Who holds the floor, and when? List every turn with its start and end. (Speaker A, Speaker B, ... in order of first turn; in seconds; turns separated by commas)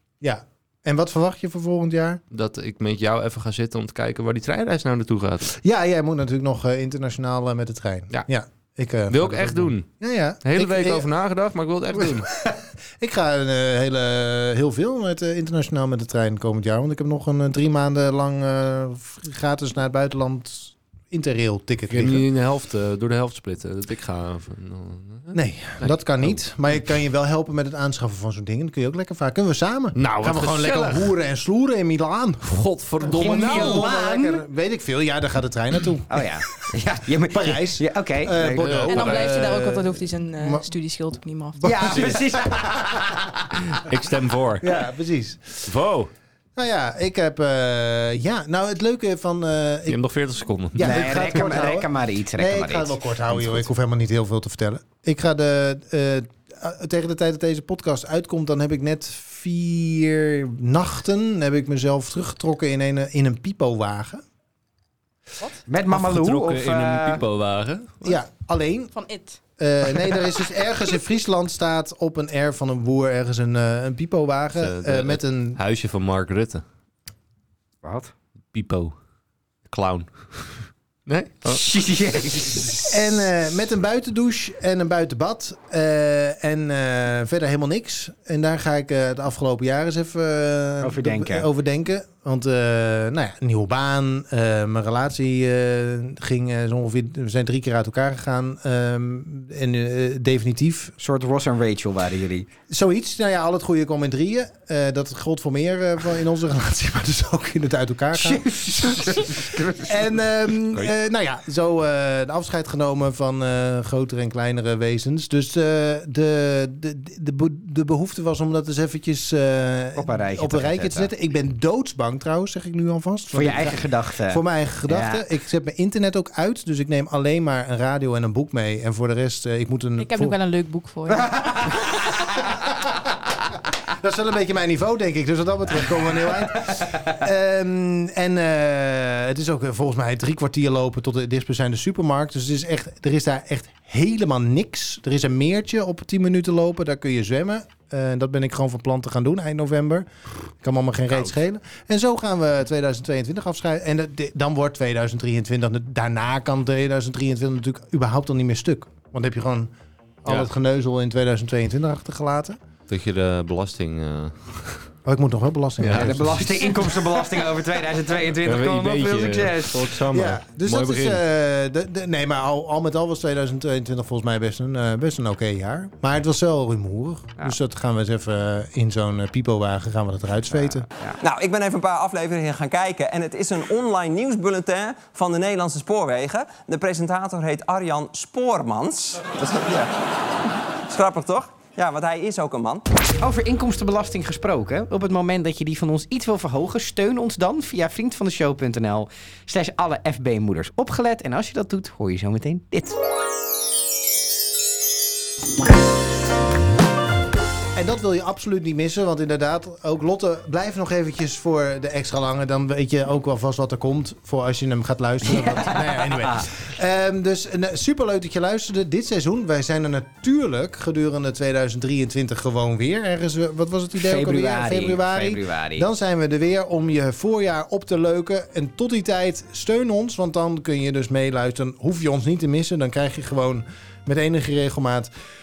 Speaker A: 0.2-2.2, Speaker B: 2.3-5.5, Speaker A: 5.5-11.1, Speaker B: 9.1-9.9, Speaker B: 10.4-12.3, Speaker A: 11.9-22.2, Speaker B: 21.9-26.4, Speaker A: 25.3-36.3, Speaker B: 29.9-31.1, Speaker B: 32.4-33.9, Speaker C: 33.1-34.4, Speaker C: 36.1-38.7, Speaker A: 37.2-40.7, Speaker B: 38.5-39.5, Speaker D: 38.9-42.1, Speaker A: 41.6-43.1, Speaker C: 41.6-43.4, Speaker B: 43.7-44.7, Speaker A: 44.6-45.7, Speaker B: 45.6-46.1, Speaker A: 46.5-50.0, Speaker B: 49.9-51.4, Speaker A: 50.7-64.2, Speaker C: 50.8-53.6, Speaker C: 65.7-67.2, Speaker B: 65.9-68.1, Speaker A: 68.0-68.9, Speaker D: 68.9-69.4, Speaker A: 69.6-75.6, Speaker B: 74.6-76.6, Speaker C: 77.8-78.1, Speaker B: 78.5-78.9, Speaker B: 79.7-81.6, Speaker C: 81.5-82.9, Speaker A: 82.9-100.9, Speaker C: 90.8-91.5, Speaker C: 101.0-102.5, Speaker A: 102.7-130.4, Speaker C: 108.1-110.1, Speaker C: 120.0-121.1, Speaker C: 123.3-125.2, Speaker D: 130.0-131.7, Speaker A: 133.9-150.1, Speaker A: 150.6-159.7, Speaker A: 160.2-162.6, Speaker B: 162.9-164.9, Speaker A: 165.1-167.0, Speaker B: 165.8-166.6, Speaker C: 165.9-169.9, Speaker B: 168.4-171.2, Speaker A: 170.1-180.9, Speaker C: 180.8-181.2, Speaker E: 181.2-189.9, Speaker E: 190.9-192.8, Speaker C: 193.2-203.0, Speaker A: 207.7-235.1, Speaker C: 215.3-216.4, Speaker C: 223.9-225.9